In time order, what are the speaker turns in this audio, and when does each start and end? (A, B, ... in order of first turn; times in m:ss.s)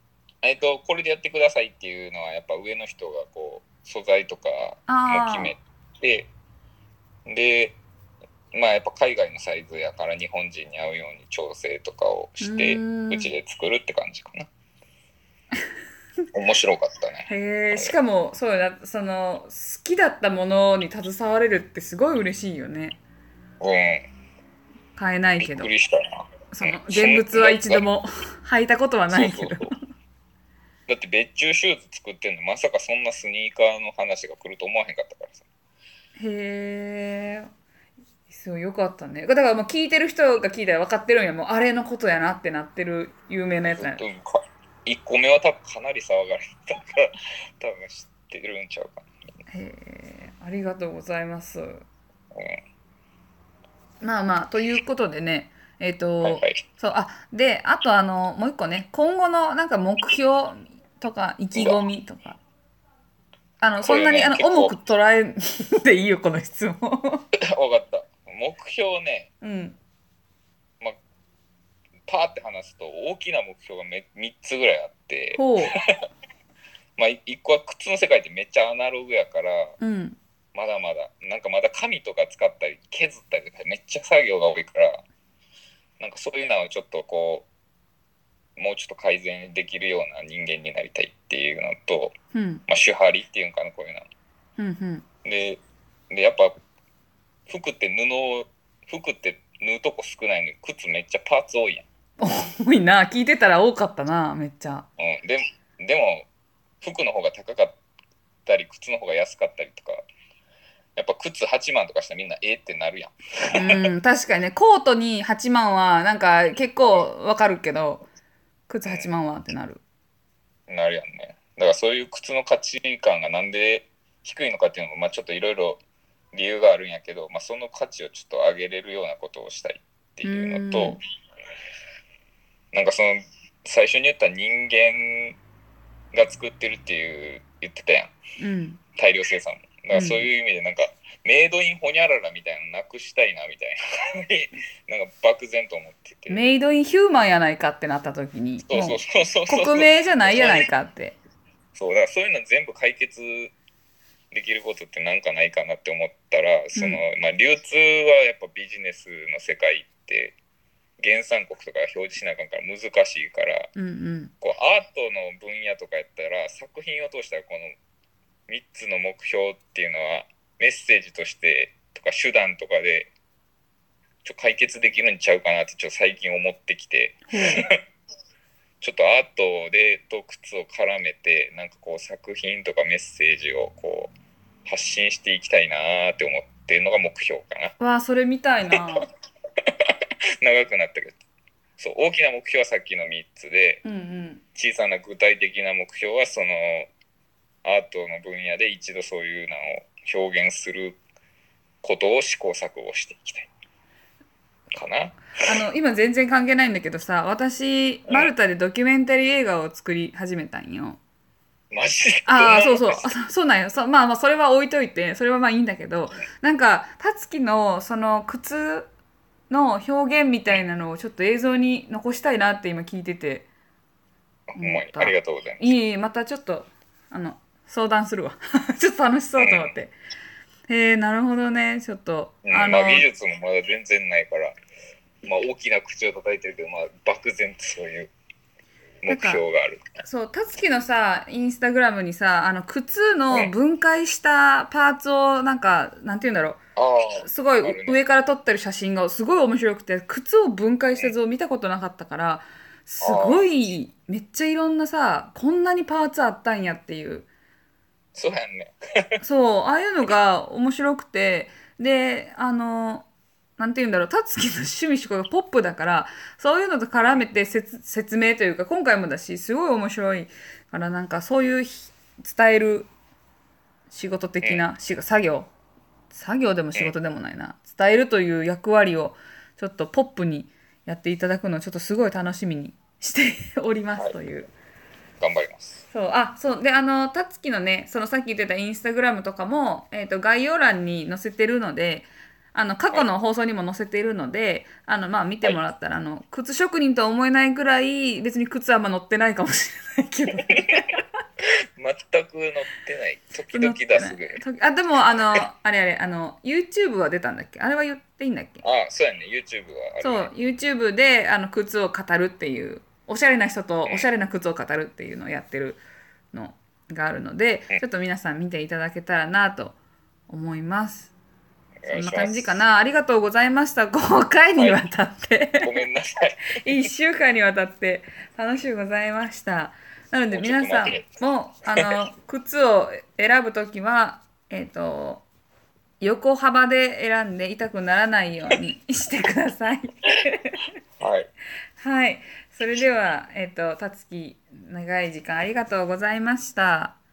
0:00.4-0:06.3 A
0:04.9-0:05.6 B
0:07.3-0:07.8 A
0:08.5-0:14.5 A
0:12.4-0:13.3 B
0:16.3-0:18.0 A
0:17.3-0:23.0 B
0:23.6-0:24.1 A
0:25.0-0:25.7 B
0:25.4-0:27.8 A
0:26.5-0:29.8 B
0:29.1-0:29.7 A
0:30.9-0:35.4 A
0:36.2-0:37.5 B
0:38.3-0:44.0 B
0:43.7-0:49.1 A
0:49.5-0:51.8 B
0:52.3-0:52.6 A
0:54.0-1:02.4 B
0:56.2-0:56.6 A
1:01.6-1:01.9 A
1:03.6-1:07.3 B
1:03.8-1:04.8 A
1:07.5-1:09.3 A
1:09.4-1:09.8 B
1:12.1-1:15.5 A
1:15.4-1:15.8 B
1:17.0-1:19.8 A
1:19.8-1:20.2 B
1:20.6-1:25.0 A
1:26.0-1:27.5 A
1:28.6-1:32.2 A
1:32.3-1:32.6 B
1:32.7-1:34.1 A
1:34.6-1:35.0 B
1:35.2-1:36.5 A
1:37.5-1:41.8 A
1:42.2-1:44.9 B
1:45.0-1:46.3 A
1:46.8-1:47.8 A
1:48.5-1:50.0 A
1:51.0-1:53.8 A
1:53.5-1:58.1 B
1:58.7-1:59.8 B
2:00.7-2:05.8 A
2:06.3-2:11.0 A
2:10.2-2:11.0 B
2:12.7-2:15.4 A
2:16.1-2:18.1 A
2:18.4-2:18.8 B
2:19.0-2:26.4 A
2:19.9-2:20.3 B
2:26.3-2:31.2 B
2:28.7-2:30.7 A
2:31.8-2:33.5 A
2:34.3-2:40.4 A
2:36.8-2:37.0 B
2:41.0-2:43.7 A
2:43.8-2:44.3 B
2:44.4-2:47.7 A
2:48.5-2:53.1 A
2:54.2-2:57.7 A
2:57.3-2:57.6 B
2:58.8-3:04.1 A
3:04.6-3:07.7 A
3:07.8-3:09.1 B
3:08.7-3:09.0 A
3:09.8-3:11.2 A
3:11.8-3:13.8 A
3:13.8-3:14.4 B
3:14.6-3:16.9 A
3:17.6-3:21.0 A
3:21.8-3:23.5 A
3:24.7-3:25.3 A
3:25.4-3:31.0 B
3:31.7-3:33.2 A
3:32.3-3:38.9 B
3:39.5-3:43.5 B
3:44.5-3:45.7 A
3:44.6-3:49.9 B
3:49.4-3:49.8 A
3:50.7-3:53.1 B
3:52.4-3:54.6 A
3:55.2-3:58.1 A
3:59.0-3:59.8 A
3:59.1-3:59.4 B
4:00.0-4:06.6 B
4:06.8-4:08.0 A
4:07.2-4:17.3 B
4:13.0-4:13.5 A
4:18.2-4:19.2 A
4:19.2-4:23.1 B
4:23.6-4:32.9 B
4:33.9-4:35.5 B
4:36.1-4:44.5 B
4:45.2-4:45.8 A
4:45.9-5:01.0 B
5:01.8-5:04.4 A
5:03.5-5:08.6 B
5:08.6-5:10.3 A
5:10.0-5:15.8 B
5:16.3-5:19.8 B
5:20.3-5:21.1 B
5:21.8-5:22.6 A
5:21.9-5:25.7 B
5:24.6-5:24.8 A
5:25.6-5:26.5 A
5:26.6-5:35.3 B
5:30.3-5:31.0 A
5:36.0-5:40.6 B
5:41.0-5:41.3 A
5:41.8-5:47.0 B